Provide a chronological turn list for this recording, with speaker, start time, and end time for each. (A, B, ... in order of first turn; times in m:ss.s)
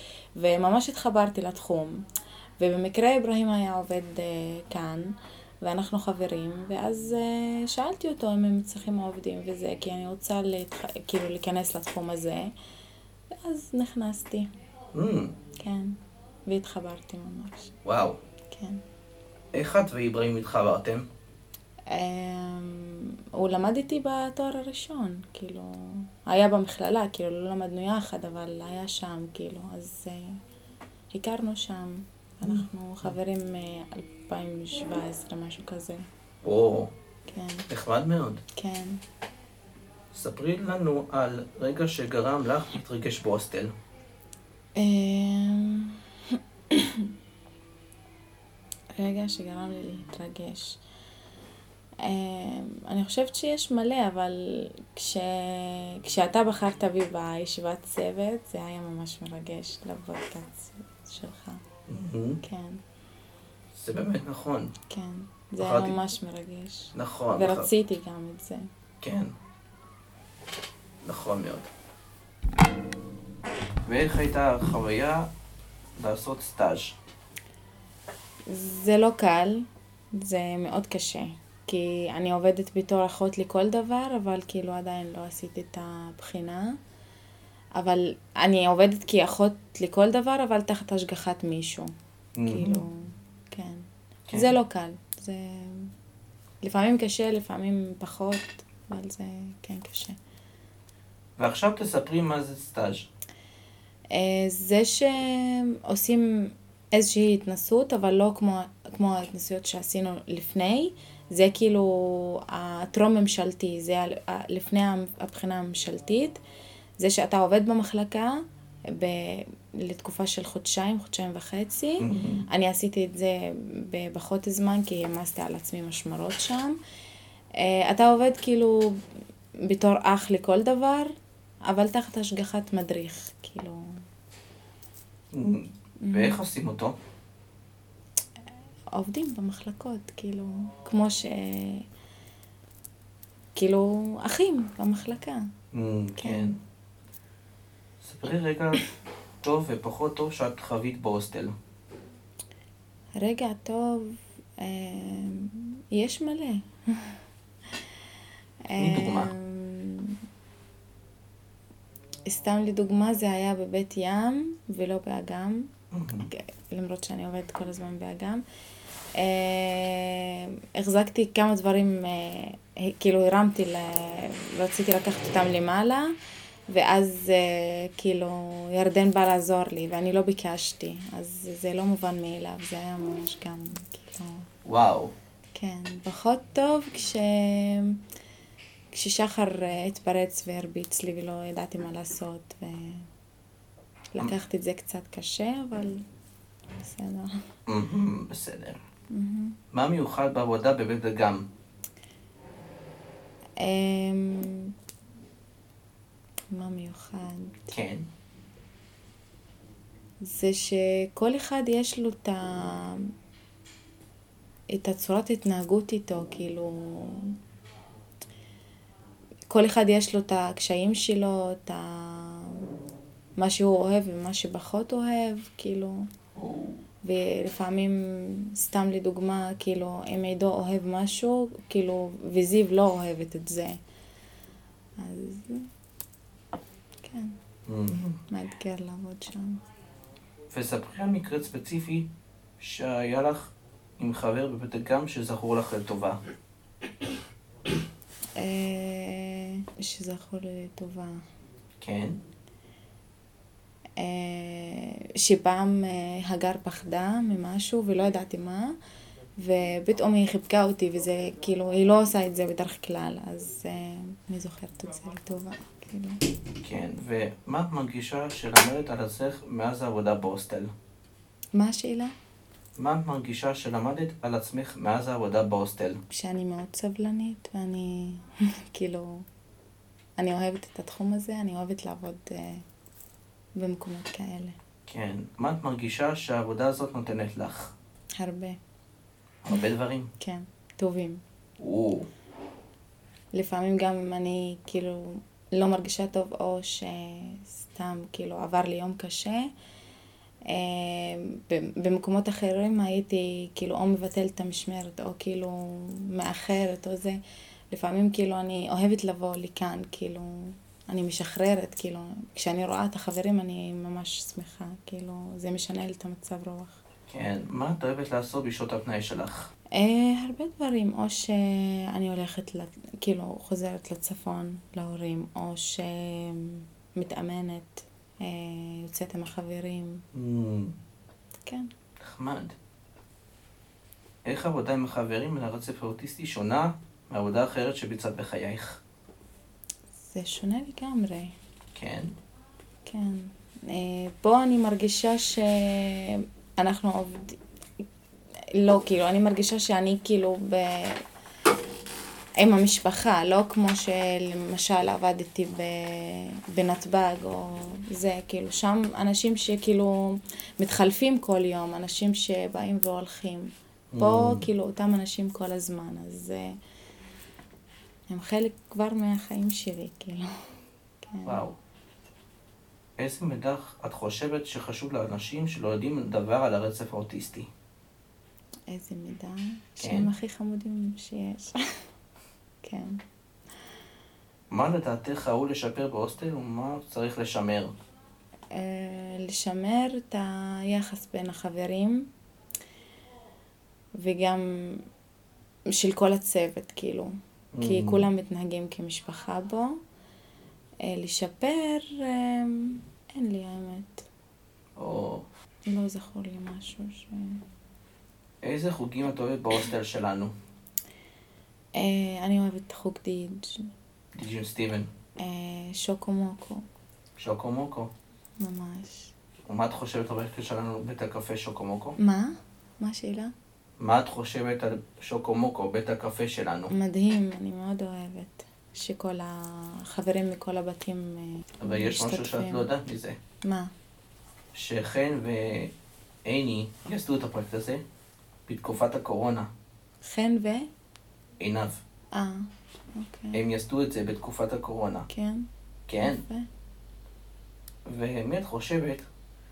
0:00.4-0:02.0 A
0:02.6-0:12.5 A
0:13.4-0:14.5 A
0:14.9-0:15.4 B
0:15.6-0:15.9 A
0:16.5-0:17.7 A
0:17.8-0:18.2 B
0:18.5-0:18.8 A
0:19.5-0:21.1 B
0:21.9-0:30.3 A
0:31.1-0:36.0 A
0:32.4-0:33.1 B
0:36.4-0:36.9 B
0:37.3-0:37.7 A
0:37.7-0:38.4 B
0:38.5-0:39.0 A
0:40.1-0:43.7 B
0:44.8-0:46.0 A
0:46.7-0:47.1 A
0:49.0-0:50.8 A
0:52.0-1:01.6 A
1:01.9-1:02.4 B
1:02.4-1:02.8 A
1:03.7-1:04.7 B
1:04.9-1:08.7 A
1:05.6-1:06.0 B
1:06.9-1:07.7 B
1:09.0-1:09.3 B
1:11.0-1:11.7 B
1:13.8-1:15.3 B
1:16.0-1:17.0 B
1:18.5-1:26.8 A
1:27.8-1:31.9 A
1:32.4-1:32.8 B
1:32.4-1:35.9 A
1:34.3-1:34.6 B
1:36.6-1:40.2 A
1:41.4-1:43.1 B
1:44.1-1:56.4 A
1:57.0-2:06.8 A
2:02.0-2:02.4 B
2:07.6-2:09.0 A
2:09.6-2:11.1 A
2:11.7-2:13.8 A
2:15.3-2:17.0 B
2:16.0-2:16.4 A
2:18.9-2:21.8 A
2:23.5-2:25.4 A
2:25.7-2:26.6 B
2:26.2-2:26.5 A
2:28.0-2:28.8 B
2:29.4-2:31.5 B
2:33.2-2:37.2 A
2:38.7-2:40.2 A
2:38.8-2:39.3 B
2:42.2-2:48.4 A
2:45.9-2:46.3 B
2:49.1-2:56.1 A
2:56.7-3:04.4 A
3:04.6-3:05.1 B
3:05.5-3:08.0 A
3:08.9-3:13.1 A
3:14.1-3:16.0 A
3:16.8-3:17.3 A
3:17.7-3:18.8 B
3:19.1-3:19.6 A
3:19.7-3:21.5 B
3:23.6-3:24.7 A
3:26.5-3:27.7 A
3:27.7-3:28.1 B
3:30.2-3:33.1 A
3:34.7-3:37.3 A
3:39.5-3:42.7 A
3:43.4-3:46.1 A
3:46.4-3:46.8 B
3:47.0-3:53.8 A
3:55.0-3:55.7 A
3:57.0-3:57.4 A
3:57.7-3:58.2 B
3:58.3-3:59.6 A
4:00.5-4:02.1 B
4:02.6-4:06.2 B
4:08.4-4:11.2 A
4:11.8-4:12.2 B
4:14.0-4:18.7 A
4:19.4-4:26.2 A
4:26.6-4:30.7 B
4:31.5-4:32.1 A
4:32.8-4:36.0 B
4:36.1-4:39.2 A
4:40.2-4:42.6 A
4:43.6-4:44.6 A
4:44.9-4:47.7 B
4:48.2-4:48.6 A
4:49.4-4:50.1 B
4:50.2-4:51.2 A
4:51.6-4:52.1 B
4:53.3-4:59.5 A
5:00.5-5:16.8 A
5:17.1-5:19.5 B
5:19.8-5:30.0 A
5:30.1-5:30.7 B
5:31.4-5:31.7 A
5:32.0-5:32.5 B
5:34.2-5:38.8 B
5:40.0-5:41.3 A
5:41.7-5:42.1 B
5:42.8-5:47.4 A
5:48.5-5:51.0 A
5:52.4-6:06.6 A
6:03.9-6:04.5 B
6:08.1-6:10.3 A
6:11.0-6:11.4 A
6:11.2-6:11.6 B
6:13.0-6:17.5 B
6:18.7-6:21.5 A
6:19.8-6:20.1 B
6:22.6-6:23.0 A
6:24.5-6:27.7 B
6:28.5-6:32.1 A
6:34.0-6:34.8 A
6:35.7-6:39.7 A
6:37.5-6:38.1 B
6:40.8-6:44.1 A
6:44.8-6:45.3 B
6:45.7-6:47.4 A
6:48.4-6:50.3 B
6:51.8-6:53.6 A
6:54.1-6:54.9 B
6:55.2-6:56.6 A
6:57.2-6:57.9 B
6:58.4-6:59.1 A
6:59.5-7:02.0 B
7:02.0-7:03.3 A
7:03.8-7:06.7 B
7:06.7-7:12.7 A
7:11.6-7:13.2 B
7:13.4-7:13.7 A
7:14.5-7:15.7 B
7:16.2-7:17.8 B
7:18.5-7:19.5 B
7:20.0-7:20.7 A
7:21.4-7:21.8 B
7:22.1-7:23.4 A
7:23.3-7:25.1 B
7:25.1-7:25.5 A
7:25.9-7:26.2 B
7:26.0-7:26.5 A
7:27.8-7:29.0 B